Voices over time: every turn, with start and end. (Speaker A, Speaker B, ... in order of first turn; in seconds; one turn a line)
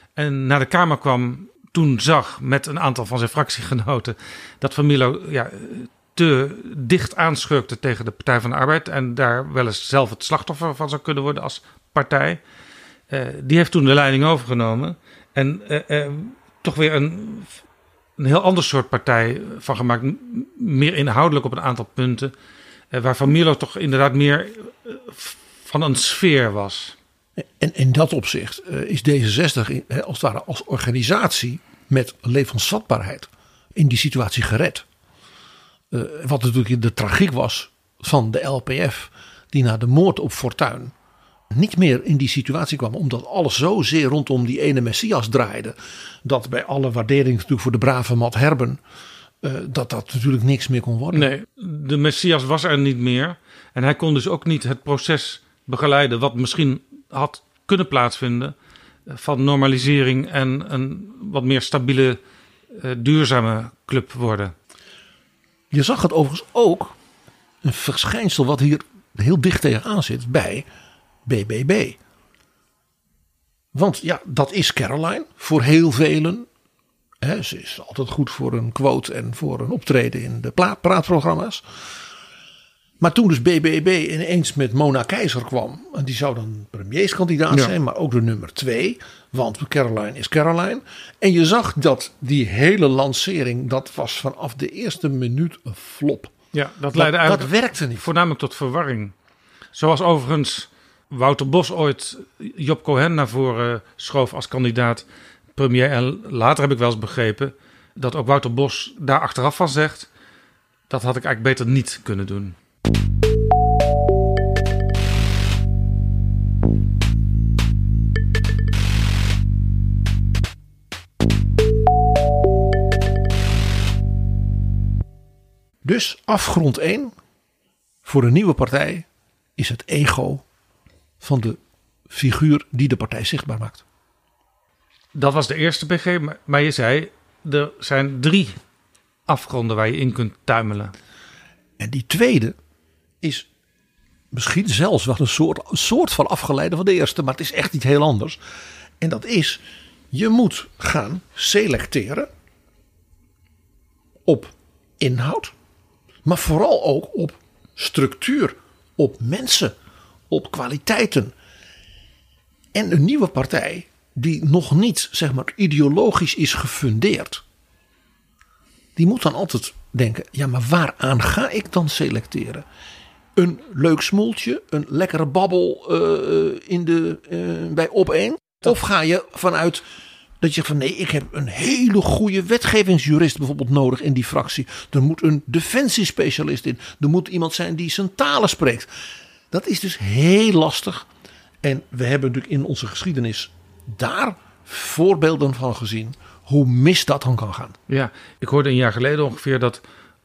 Speaker A: 0.1-12.4
Speaker A: 13.1-17.5
Speaker A: 18.2-22.3
Speaker A: 22.9-26.9
Speaker B: 27.4-34.8
Speaker B: 35.9-40.9
Speaker B: 41.5-48.8
Speaker B: 49.4-51.3
Speaker A: 51.1-58.5
Speaker A: 59.1-62.2
Speaker A: 62.7-64.5
Speaker B: 65.7-67.0
Speaker B: 67.6-70.7
Speaker B: 71.2-72.0
Speaker B: 73.7-76.5
Speaker B: 77.2-81.6
Speaker B: 83.0-96.3
Speaker A: 96.5-99.1
Speaker B: 96.9-98.1
Speaker A: 99.7-105.0
Speaker A: 105.5-110.1
Speaker A: 110.9-112.5
Speaker B: 125.8-127.1
Speaker B: 128.0-129.1
Speaker B: 129.6-130.4
Speaker B: 131.2-133.8
Speaker A: 135.1-138.6
Speaker A: 139.3-140.9
Speaker B: 141.8-142.6
Speaker B: 143.2-143.5
Speaker B: 144.3-148.4
Speaker B: 149.0-152.3
Speaker B: 154.2-155.5
Speaker B: 156.2-159.8
Speaker B: 160.3-161.3
Speaker B: 162.7-167.4
Speaker B: 168.9-172.7
Speaker B: 173.3-179.8
Speaker B: 180.4-188.9
Speaker B: 189.5-191.1
Speaker B: 191.6-197.8
Speaker A: 197.9-199.8